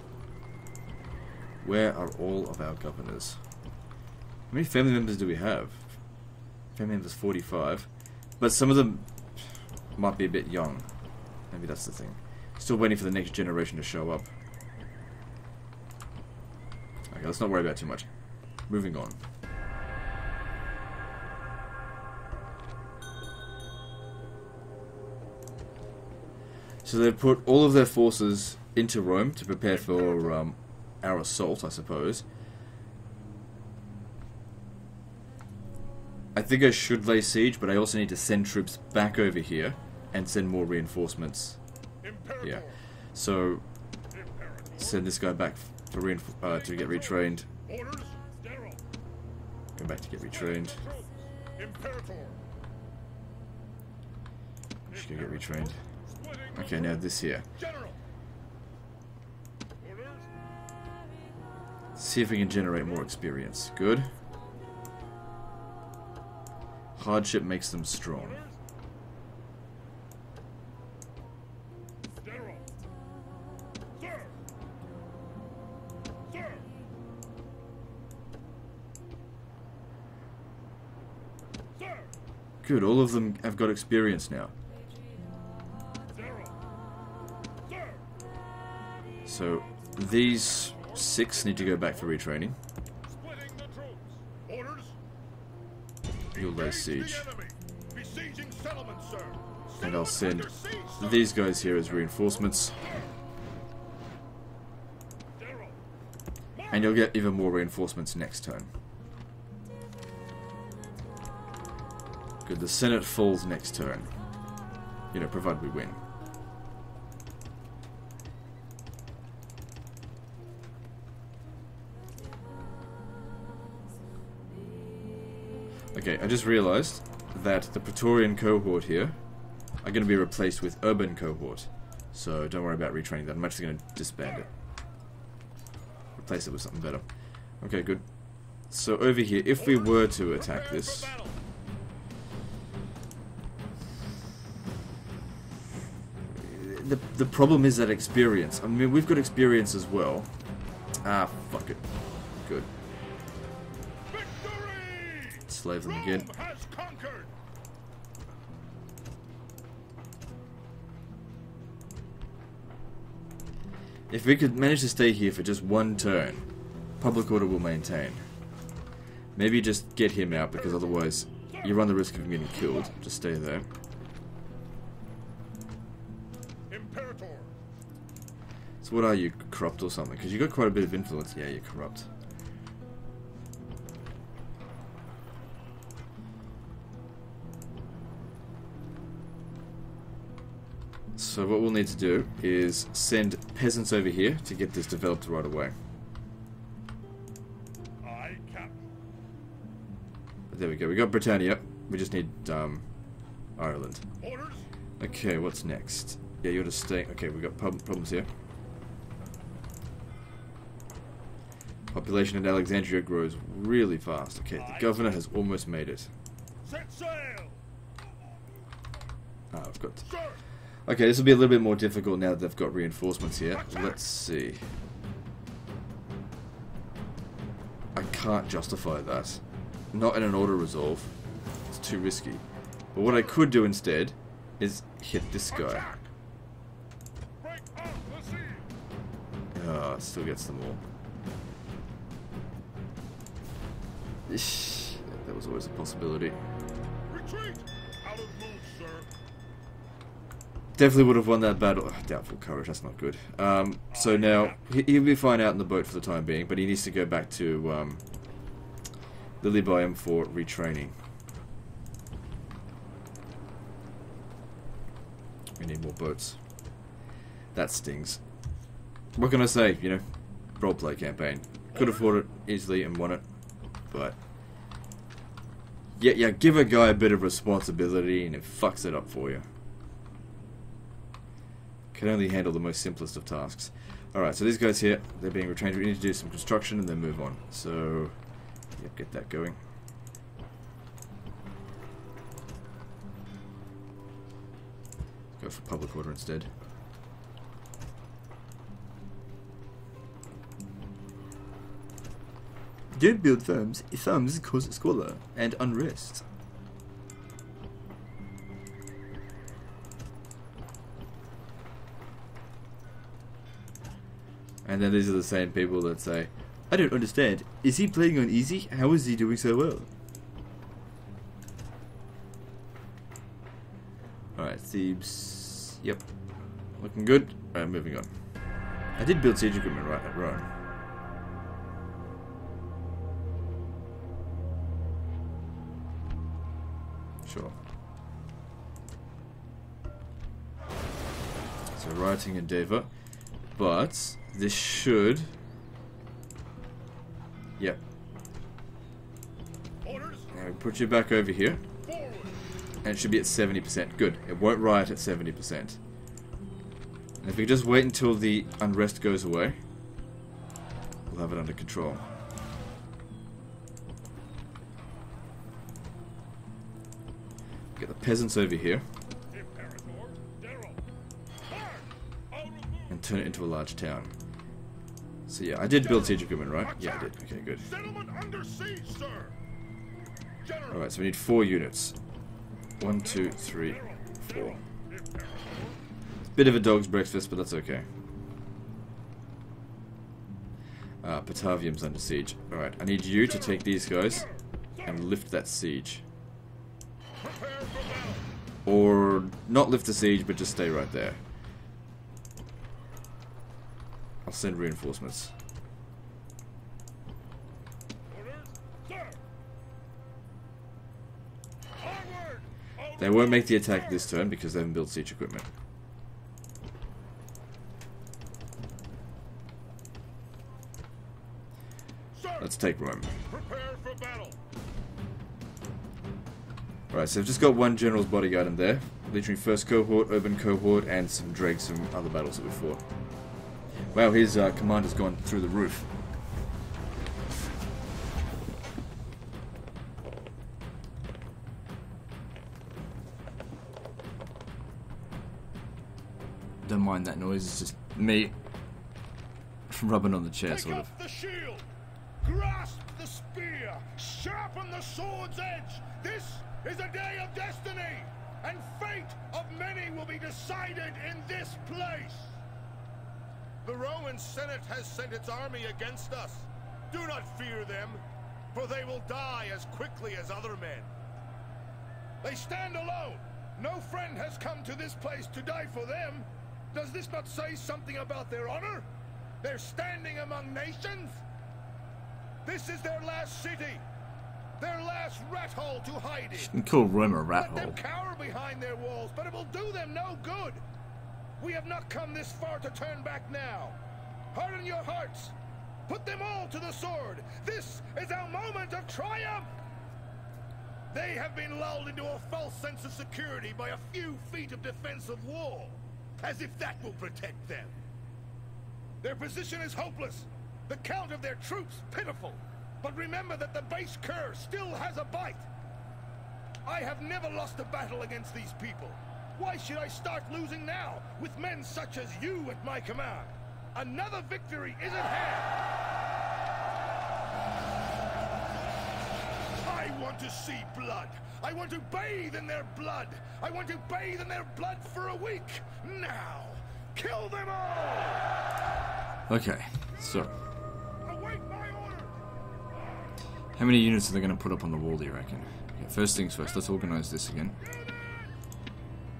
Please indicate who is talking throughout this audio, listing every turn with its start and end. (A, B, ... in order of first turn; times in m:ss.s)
0:01.6-0:03.4 A
0:04.5-0:06.0 A
0:06.7-0:10.9 A
0:11.5-0:14.3 A
0:17.1-0:18.1 A
0:18.6-0:19.2 A
0:26.8-0:32.2 A
0:36.3-0:41.6 A
0:42.0-0:42.8 B
0:42.4-0:43.6 A
0:44.1-0:44.8 B
0:44.8-0:47.5 A
0:46.7-0:48.8 B
0:49.8-0:50.8 A
0:50.3-0:52.4 B
0:54.9-0:55.8 A
0:56.1-0:57.0 B
0:56.5-0:57.5 A
0:57.6-0:58.0 B
0:59.8-1:00.2 B
1:02.0-1:04.1 A
1:07.0-1:08.5 A
1:12.2-1:12.6 B
1:22.6-1:24.5 A
1:26.2-1:26.5 B
1:29.2-1:32.6 A
1:33.1-1:35.0 B
1:36.3-1:41.8 B
1:36.3-1:37.3 A
1:39.8-1:42.8 A
1:45.4-1:45.8 B
1:46.7-1:48.7 A
1:52.4-1:54.1 A
1:55.1-1:56.0 A
2:05.9-2:09.2 A
2:09.8-2:14.5 A
2:16.2-2:17.0 A
2:17.6-2:18.1 A
2:18.6-2:21.1 A
2:19.6-2:21.4 B
2:26.3-2:30.3 A
2:31.0-2:31.8 A
2:32.4-2:32.7 A
2:34.1-2:37.3 B
2:35.5-2:36.3 A
2:44.1-2:46.5 A
2:47.0-2:48.2 A
2:49.4-2:53.7 A
2:56.7-2:57.5 B
2:58.8-3:02.1 A
3:11.2-3:15.7 A
3:18.0-3:18.8 B
3:20.5-3:22.8 A
3:23.6-3:24.1 A
3:24.2-3:24.7 B
3:25.0-3:28.3 A
3:31.9-3:36.1 A
3:34.7-3:35.0 B
3:36.6-3:37.6 B
3:39.5-3:40.2 A
3:40.1-3:40.4 B
3:40.8-3:44.6 A
3:43.6-3:43.9 B
3:47.9-3:49.4 A
3:49.9-3:51.1 A
3:51.7-3:55.8 A
3:55.5-3:56.1 B
3:57.4-3:58.6 B
3:59.5-4:00.8 A
4:04.3-4:06.4 A
4:07.1-4:09.1 B
4:10.8-4:18.0 A
4:14.0-4:14.6 B
4:19.4-4:20.9 A
4:25.6-4:26.4 A
4:27.5-4:28.2 A
4:29.2-4:30.0 A
4:30.5-4:33.2 A
4:33.9-4:34.2 A
4:36.0-4:39.4 A
4:41.9-4:48.2 A
4:48.8-4:49.6 A
4:55.4-4:56.5 A
5:02.9-5:06.2 A
5:14.6-5:19.9 A
5:24.4-5:26.0 A
5:26.8-5:28.1 A
5:29.0-5:30.5 A
5:37.2-5:37.6 A
5:41.7-5:42.9 A
5:43.5-5:45.3 A
5:49.8-5:50.3 B
5:50.3-5:51.6 A
5:51.8-5:52.3 B
5:52.8-5:55.8 A
5:57.2-5:59.6 A
6:01.1-6:02.0 A
6:07.8-6:08.8 A
6:09.3-6:10.8 B
6:12.3-6:12.8 B
6:12.9-6:14.1 A
6:15.3-6:17.7 A
6:16.7-6:17.1 B
6:17.7-6:19.3 B
6:20.4-6:20.7 B
6:20.7-6:22.0 A
6:22.8-6:24.6 A
6:24.9-6:25.7 B
6:26.3-6:27.9 A
6:31.0-6:34.3 A
6:34.8-6:36.0 A
6:37.2-6:38.2 B
6:38.6-6:41.2 A
6:44.2-6:45.3 A
6:51.8-6:52.4 B
6:53.0-6:55.5 A
7:02.1-7:02.4 B
7:02.4-7:03.2 A
7:03.2-7:04.4 B
7:06.9-7:12.8 A
7:13.9-7:15.9 A
7:26.6-7:28.3 A
7:29.7-7:30.9 A
7:30.5-7:31.7 B
7:32.2-7:42.4 B
7:43.6-7:50.9 B
7:52.2-7:58.9 B
7:59.4-8:01.2 B
8:02.4-8:03.8 B
8:04.6-8:06.5 B
8:06.3-8:07.8 A
8:07.4-8:10.6 B
8:11.4-8:13.8 B
8:14.3-8:15.3 B
8:15.9-8:19.5 B
8:20.9-8:27.8 B
8:29.0-8:35.5 B
8:36.6-8:45.6 B
8:49.6-8:58.2 B
8:59.3-9:00.3 A
9:01.0-9:02.2 B
9:03.6-9:07.6 A